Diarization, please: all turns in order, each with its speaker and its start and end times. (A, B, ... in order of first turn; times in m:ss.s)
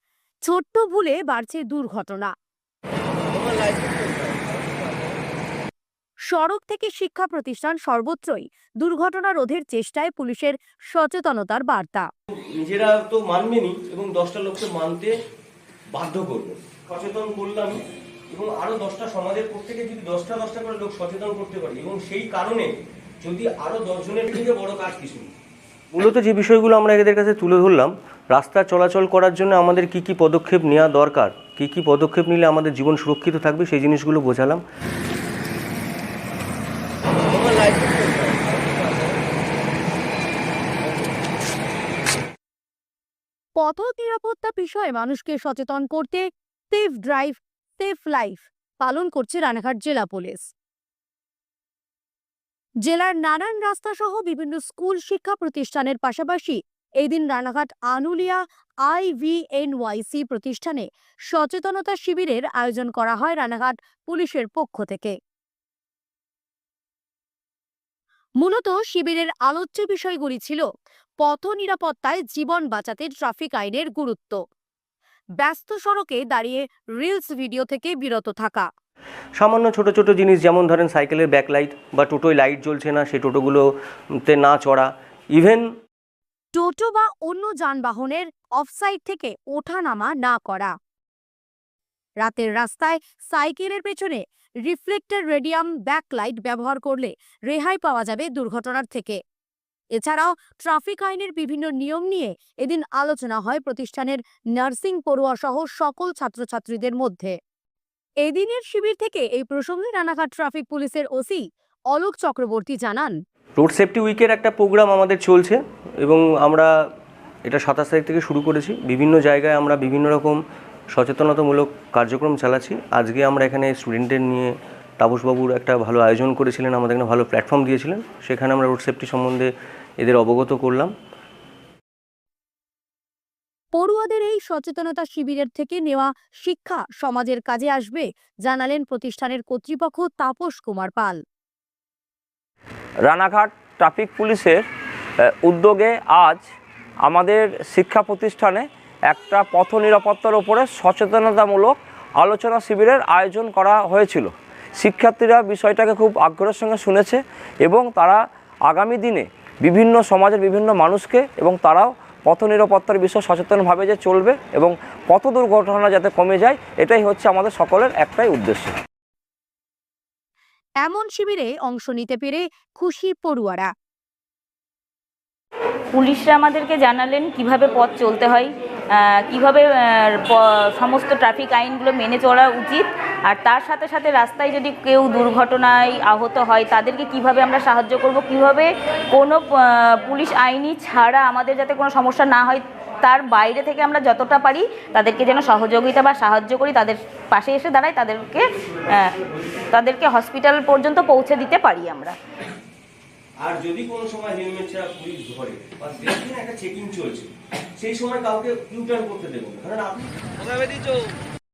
0:00.5-0:02.3 A
0:03.3-0:05.1 B
0:06.3-0:12.1 A
0:12.6-0:15.1 B
0:15.9-0:25.3 B
0:25.9-0:34.6 B
0:37.2-0:39.2 B
0:43.6-0:50.4 A
0:52.8-1:05.1 A
1:08.4-1:10.6 A
1:11.2-1:14.4 A
1:15.4-1:18.7 A
1:19.4-1:23.7 B
1:24.2-1:25.6 B
1:26.5-1:30.7 A
1:32.2-1:39.2 A
1:40.0-1:47.3 A
1:48.2-1:53.1 A
1:53.6-1:56.7 B
1:57.4-2:00.4 B
2:00.9-2:10.9 B
2:13.7-2:21.2 A
2:23.0-2:24.6 C
2:25.4-2:26.4 C
2:27.0-2:48.7 C
2:50.8-2:53.7 A
2:55.9-3:19.2 D
3:19.7-3:22.2 D
3:23.4-3:30.8 B